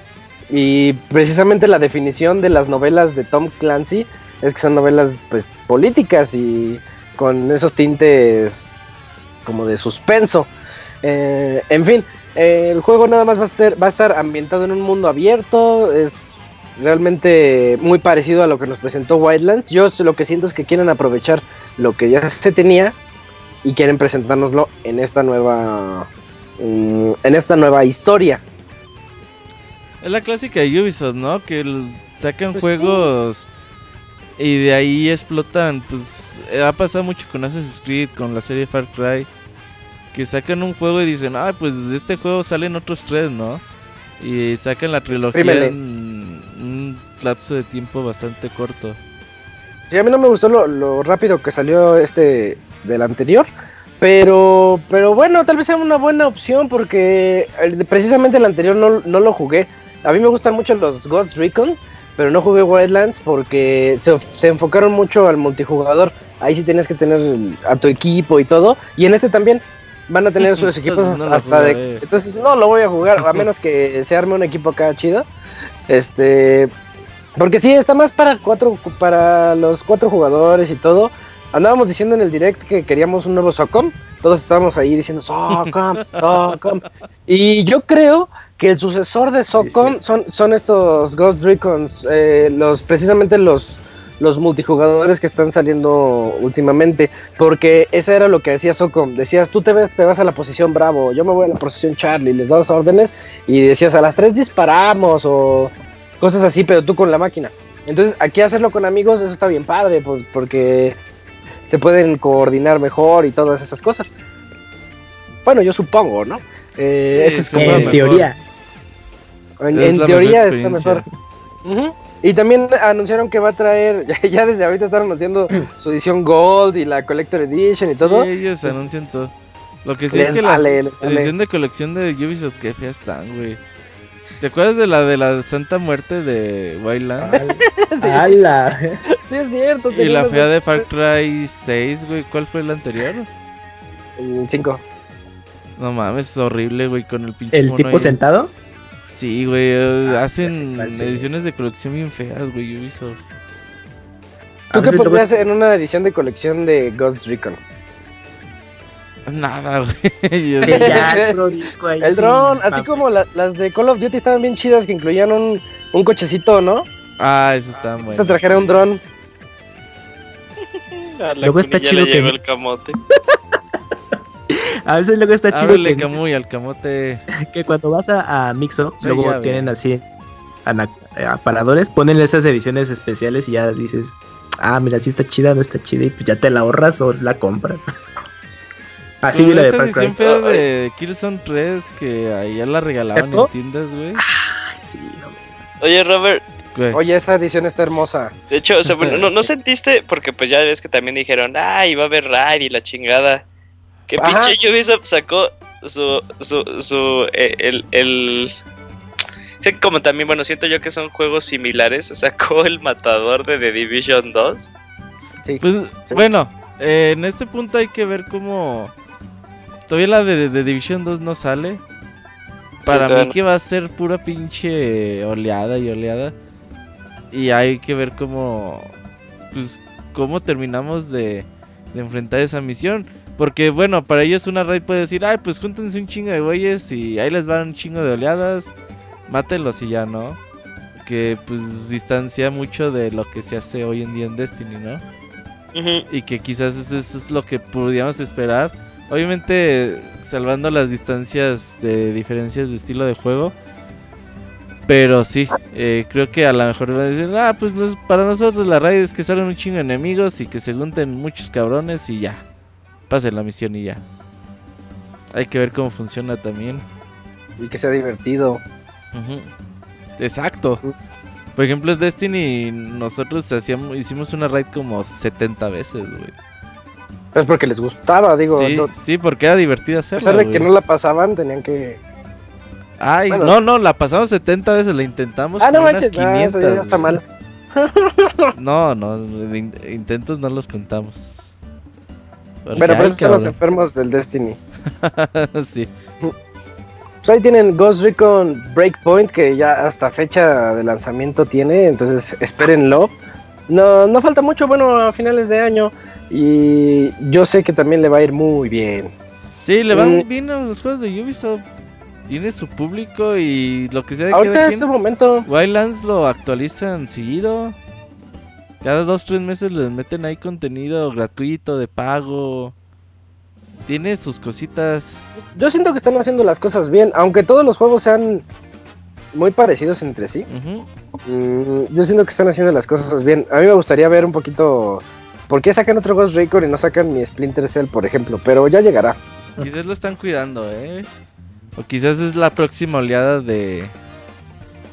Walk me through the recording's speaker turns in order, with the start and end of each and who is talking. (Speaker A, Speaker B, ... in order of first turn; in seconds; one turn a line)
Speaker A: 0.5-8.8
Speaker A: 9.5-10.5
Speaker A: 11.0-23.0
Speaker A: 23.6-26.1
Speaker A: 26.6-28.4
Speaker B: 30.0-33.5
Speaker A: 32.5-33.1
Speaker B: 34.4-39.3
Speaker B: 40.1-43.6
Speaker B: 44.2-49.0
Speaker A: 45.2-45.8
Speaker A: 49.9-53.5
Speaker A: 54.0-75.3
Speaker B: 70.4-72.0
Speaker A: 75.9-76.7
Speaker A: 77.4-111.0
Speaker B: 85.5-86.6
Speaker C: 89.6-90.0
Speaker A: 111.7-114.1
Speaker A: 115.5-118.0
Speaker B: 117.1-118.3
Speaker C: 117.5-118.4
Speaker A: 119.6-121.0
Speaker B: 119.8-121.0
Speaker A: 121.7-128.7
Speaker B: 128.0-129.3
Speaker B: 129.8-133.6
Speaker A: 130.1-131.3
Speaker B: 134.4-137.4
Speaker A: 137.2-138.4
Speaker C: 137.3-139.0
Speaker A: 139.2-140.9
Speaker B: 139.9-143.3
Speaker A: 144.2-144.8
Speaker B: 145.8-148.2
Speaker C: 147.5-148.5
Speaker B: 149.1-153.2
Speaker C: 150.1-151.3
Speaker C: 154.7-155.3
Speaker A: 154.7-157.6
Speaker B: 159.3-161.2
Speaker C: 160.6-163.0
Speaker A: 160.7-161.4
Speaker A: 162.0-166.9
Speaker B: 167.2-168.7
Speaker A: 168.1-169.0
Speaker D: 171.2-173.0
Speaker C: 171.4-172.4
Speaker C: 174.5-176.2
Speaker B: 175.5-177.2
Speaker C: 177.3-180.1
Speaker B: 179.0-179.7
Speaker C: 180.7-187.9
Speaker C: 189.2-190.2
Speaker B: 189.3-194.2
Speaker D: 190.3-190.6
Speaker C: 193.2-193.5
Speaker C: 194.2-195.4
Speaker D: 195.8-196.4
Speaker B: 196.7-197.0
Speaker A: 196.9-198.3
Speaker D: 198.5-203.4
Speaker D: 204.1-208.5
Speaker A: 204.2-204.5
Speaker D: 209.6-214.7
Speaker A: 215.4-216.2
Speaker B: 215.6-218.9
Speaker B: 219.9-221.8
Speaker D: 222.8-223.3
Speaker B: 222.8-226.3
Speaker B: 227.3-228.9
Speaker B: 229.5-238.7
Speaker B: 239.3-240.4
Speaker B: 241.0-245.0
Speaker D: 245.8-246.1
Speaker B: 246.1-253.5
Speaker B: 254.9-262.4
Speaker B: 263.1-264.0
Speaker B: 265.3-266.8
Speaker A: 267.6-268.6
Speaker B: 269.1-269.5
Speaker B: 270.2-270.8
Speaker B: 271.6-276.3
Speaker A: 277.4-278.9
Speaker B: 278.5-280.7
Speaker A: 280.2-282.0
Speaker B: 283.0-287.2
Speaker A: 285.6-287.2
Speaker A: 287.8-288.5
Speaker B: 288.6-291.4
Speaker B: 292.6-293.5
Speaker C: 292.7-293.4
Speaker A: 292.8-294.6
Speaker B: 295.0-295.9
Speaker A: 297.2-303.1
Speaker A: 303.7-309.1
Speaker B: 309.6-311.6
Speaker A: 309.9-310.2
Speaker B: 312.3-314.9
Speaker A: 314.3-315.5
Speaker B: 315.5-317.8
Speaker B: 318.8-322.7
Speaker B: 323.9-325.2
Speaker A: 325.6-328.4
Speaker A: 329.3-330.5
Speaker B: 330.5-330.9
Speaker A: 331.3-339.2
Speaker B: 339.6-341.1
Speaker B: 341.8-343.9